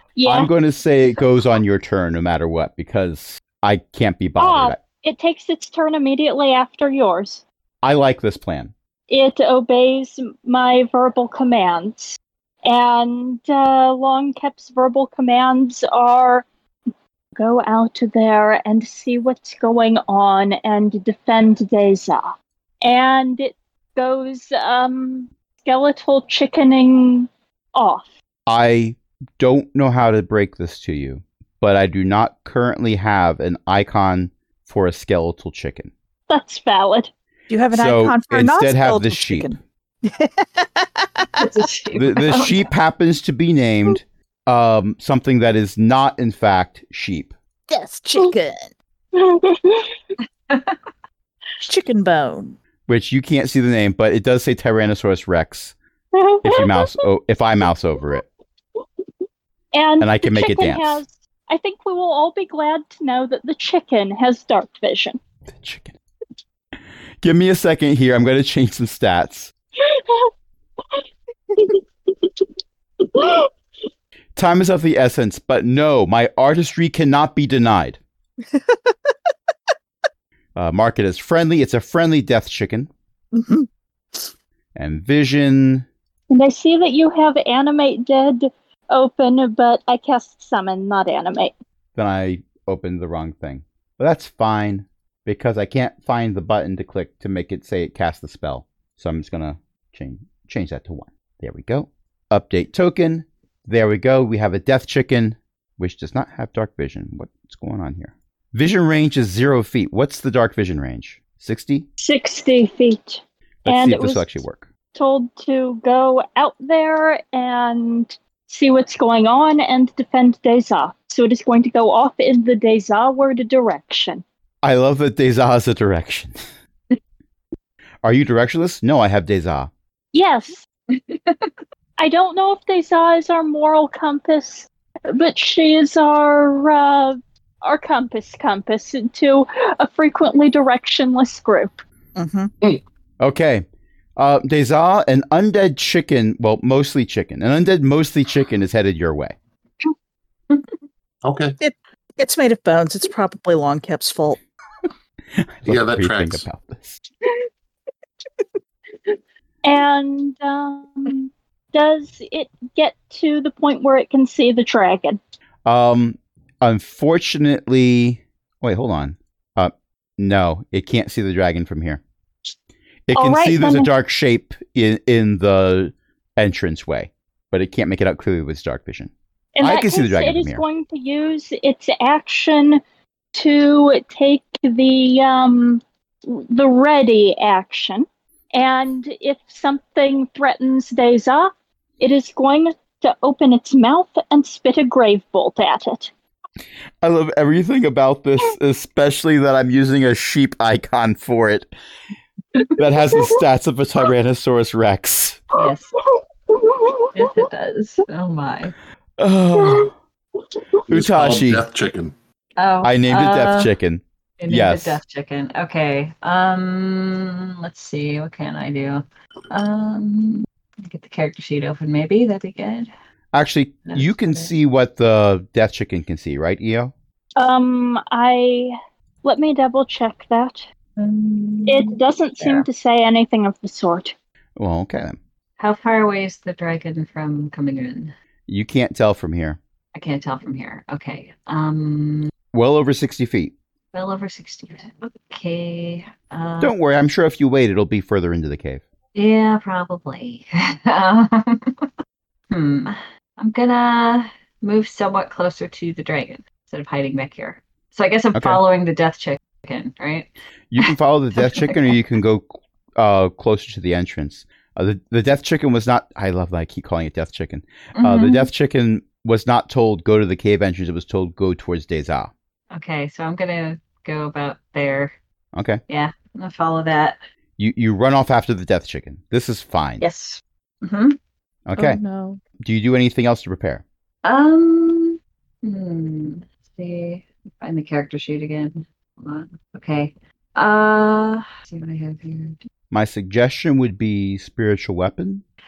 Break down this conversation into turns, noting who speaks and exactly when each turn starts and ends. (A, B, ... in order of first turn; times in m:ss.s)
0:00.2-0:00.5 A
0:00.2-0:04.8 B
0:04.4-0:07.4 A
0:07.8-0:08.7 B
0:09.1-0:16.4 A
0:17.4-0:28.1 A
0:28.5-0:35.9 B
0:36.3-0:37.1 A
0:37.5-0:41.4 C
0:37.7-0:39.6 B
0:41.4-0:42.7 D
0:41.9-0:47.3 B
0:47.7-0:48.7 C
0:49.1-0:50.0 A
0:50.5-0:50.8 D
0:51.6-0:52.6 C
0:52.9-0:55.7 B
0:56.1-0:57.0 A
0:56.4-0:58.2 B
0:59.7-1:05.2 A
1:00.0-1:01.0 B
1:05.5-1:05.9 B
1:07.2-1:09.5 B
1:09.8-1:10.3 A
1:13.1-1:13.5 A
1:14.4-1:18.0 B
1:18.5-1:19.1 C
1:20.5-1:22.9 B
1:23.3-1:24.3 C
1:24.7-1:25.9 B
1:26.3-1:31.5 A
1:32.0-1:51.9 B
1:52.0-1:54.4 A
1:53.6-1:54.7 B
1:54.9-2:04.2 A
2:04.6-2:06.4 B
2:08.0-2:09.7 B
2:10.1-2:10.7 A
2:11.0-2:11.5 D
2:12.0-2:21.8 A
2:22.2-2:22.5 C
2:23.2-2:29.4 B
2:31.2-2:31.6 E
2:31.6-2:34.4 C
2:35.4-2:37.0 B
2:35.6-2:36.4 E
2:39.6-2:45.2 A
2:45.6-2:52.0 B
2:53.1-3:00.6 B
2:53.1-2:53.9 A
2:59.6-3:02.8 A
3:03.3-3:16.1 A
3:17.0-3:21.7 B
3:22.8-3:25.4 B
3:25.5-3:25.9 D
3:26.7-3:27.1 A
3:27.1-3:28.7 D
3:29.2-3:29.9 B
3:30.9-3:32.1 E
3:30.9-3:31.6 B
3:32.6-3:33.7 D
3:32.8-3:35.0 B
3:34.4-3:42.9 D
3:43.3-3:46.9 B
3:43.9-3:44.5 D
3:47.4-3:50.6 A
3:51.0-3:52.6 D
3:51.6-3:54.1 A
3:54.6-3:55.2 B
3:55.6-3:58.1 D
3:58.5-3:59.6 B
3:59.9-4:02.3 D
4:02.5-4:03.5 B
4:03.9-4:06.7 D
4:06.6-4:08.8 B
4:09.1-4:11.9 D
4:12.5-4:21.9 D
4:18.3-4:18.6 B
4:20.7-4:32.3 B
4:28.0-4:28.5 D
4:32.7-4:35.1 D
4:35.5-4:35.8 B
4:35.9-4:37.2 D
4:37.6-4:40.0 B
4:40.0-4:41.2 D
4:41.6-4:42.0 B
4:41.8-4:42.4 C
4:42.6-4:43.8 B
4:44.2-4:52.6 D
4:52.9-4:55.4 B